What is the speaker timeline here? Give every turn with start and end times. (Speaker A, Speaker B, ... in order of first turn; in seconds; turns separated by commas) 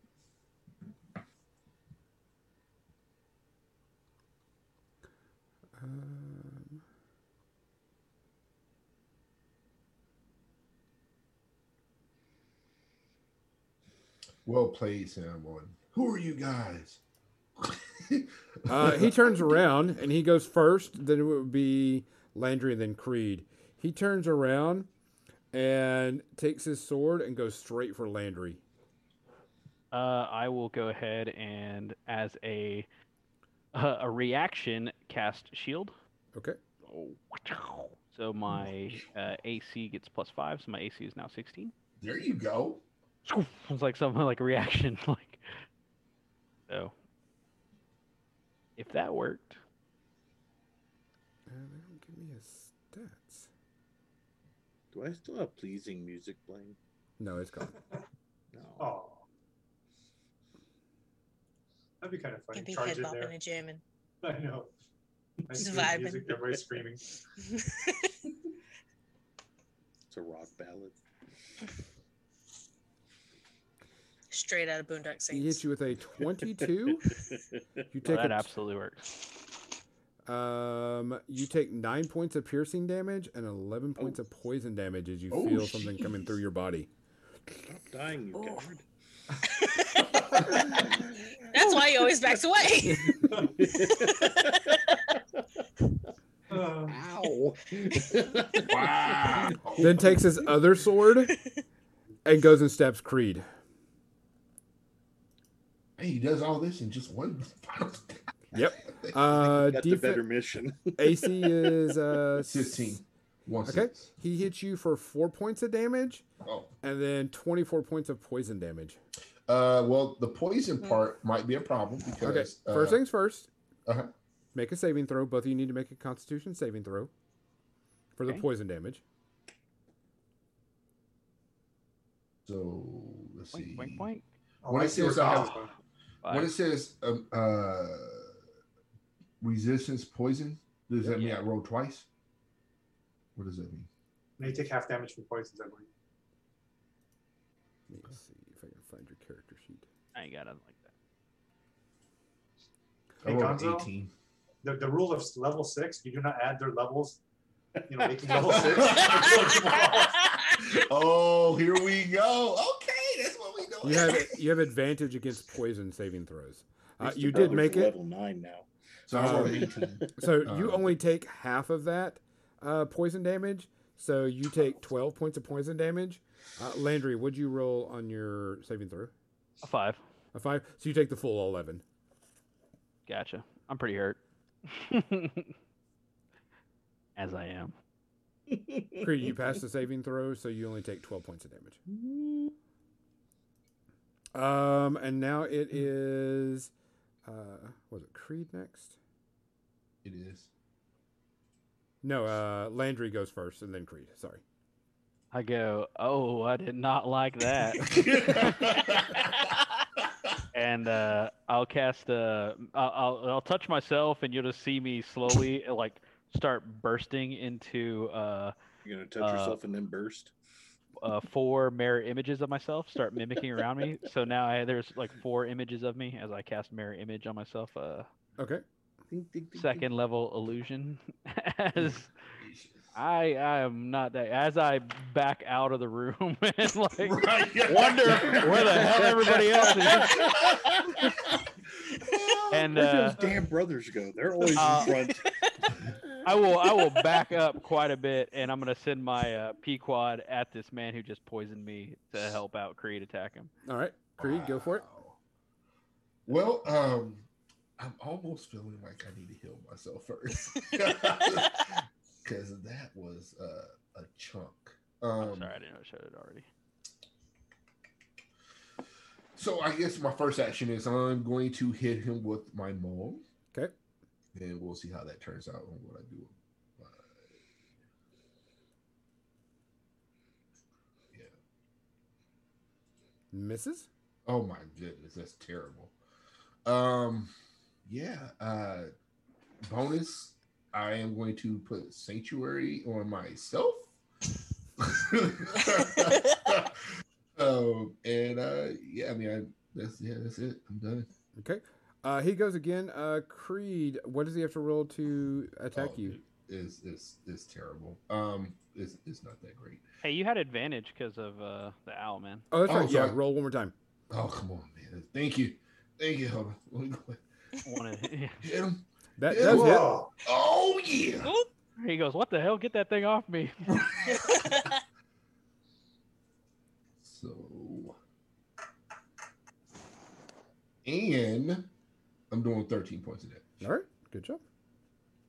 Speaker A: 5.8-6.8, Speaker B: 14.4-17.0, Speaker B: 17.6-19.6, Speaker A: 18.7-24.9, Speaker A: 25.5-28.6, Speaker C: 29.9-32.9, Speaker C: 33.7-35.9, Speaker C: 36.9-41.7, Speaker B: 42.0-42.8, Speaker C: 43.2-45.4, Speaker C: 48.8-49.6, Speaker A: 51.5-53.5, Speaker D: 54.9-56.8, Speaker A: 57.2-57.8, Speaker D: 58.5-58.9, Speaker E: 58.8-59.2, Speaker E: 62.0-63.3, Speaker F: 62.5-63.8, Speaker E: 64.2-64.7, Speaker E: 65.5-67.0, Speaker F: 65.5-66.3, Speaker F: 67.4-68.2, Speaker D: 70.1-70.9, Speaker F: 74.3-75.6, Speaker A: 75.3-77.2, Speaker D: 77.1-77.4, Speaker A: 77.9-78.5, Speaker C: 78.0-79.0, Speaker A: 80.2-86.9, Speaker B: 85.3-86.3, Speaker D: 87.6-88.8, Speaker F: 88.4-88.7, Speaker F: 89.4-90.8, Speaker D: 90.5-91.9, Speaker F: 91.5-95.0, Speaker D: 92.8-95.4, Speaker E: 96.5-97.0, Speaker D: 96.9-100.3, Speaker B: 98.7-100.1, Speaker A: 99.8-101.3, Speaker F: 101.3-101.5, Speaker A: 102.2-103.5, Speaker B: 106.0-109.5, Speaker A: 108.5-110.2, Speaker D: 109.4-111.9, Speaker A: 111.0-112.8, Speaker B: 112.4-114.1, Speaker A: 113.7-116.2, Speaker B: 116.4-116.7, Speaker A: 116.8-119.0, Speaker B: 119.5-123.0, Speaker A: 122.2-123.5, Speaker B: 123.8-124.1, Speaker A: 124.5-127.1, Speaker A: 128.2-129.0, Speaker B: 132.4-134.1, Speaker C: 133.5-134.2, Speaker E: 134.6-135.7, Speaker B: 134.7-135.7, Speaker C: 136.2-136.5, Speaker B: 136.3-138.3, Speaker B: 139.4-142.1, Speaker C: 141.0-141.4, Speaker B: 143.3-143.9, Speaker E: 144.4-145.9, Speaker A: 147.9-149.8, Speaker C: 150.1-150.9, Speaker E: 153.2-153.9, Speaker B: 153.2-154.1, Speaker E: 154.6-157.2, Speaker D: 157.8-158.9, Speaker E: 157.9-160.3, Speaker B: 158.5-159.7, Speaker B: 160.6-164.4, Speaker A: 163.8-167.9, Speaker D: 167.0-168.7, Speaker B: 169.1-170.9, Speaker A: 169.1-179.1, Speaker D: 169.3-170.2, Speaker C: 179.6-180.0, Speaker A: 180.3-181.8, Speaker C: 183.1-185.5, Speaker C: 187.2-187.7, Speaker D: 188.5-189.3, Speaker A: 189.0-191.8, Speaker D: 191.9-192.5, Speaker A: 194.3-196.7, Speaker A: 197.2-198.9, Speaker B: 200.0-200.5, Speaker A: 202.0-204.4, Speaker C: 205.3-209.0, Speaker B: 207.8-209.6, Speaker C: 210.5-218.5, Speaker D: 218.8-220.3, Speaker C: 219.2-219.6, Speaker C: 221.0-228.1, Speaker A: 228.4-228.6, Speaker D: 229.1-229.8, Speaker C: 229.5-232.1, Speaker B: 232.4-232.9, Speaker C: 232.9-240.2, Speaker B: 237.0-239.0, Speaker D: 238.0-240.7, Speaker B: 240.2-241.1, Speaker B: 241.9-242.8, Speaker C: 242.5-243.2, Speaker D: 242.7-245.3, Speaker C: 244.6-245.1, Speaker C: 246.2-253.5, Speaker A: 253.7-254.8, Speaker B: 254.2-255.2, Speaker B: 256.2-257.3, Speaker B: 257.8-265.5, Speaker C: 265.2-266.4, Speaker B: 269.4-273.2, Speaker B: 274.3-277.1, Speaker A: 283.3-283.9, Speaker B: 284.2-285.9, Speaker B: 286.6-287.3, Speaker B: 287.9-288.9, Speaker B: 289.6-293.9, Speaker B: 294.8-301.1, Speaker A: 301.4-306.2, Speaker B: 305.7-309.8, Speaker C: 310.0-312.4, Speaker A: 312.5-313.7, Speaker B: 312.6-313.2, Speaker B: 314.1-317.2, Speaker C: 317.6-318.4, Speaker B: 318.4-321.3, Speaker A: 319.2-320.0, Speaker E: 319.3-320.1, Speaker F: 321.2-321.5, Speaker C: 321.8-323.8, Speaker B: 323.7-324.7, Speaker F: 324.2-324.8, Speaker B: 327.0-328.0, Speaker B: 330.8-331.7, Speaker B: 332.3-333.7, Speaker A: 333.6-334.4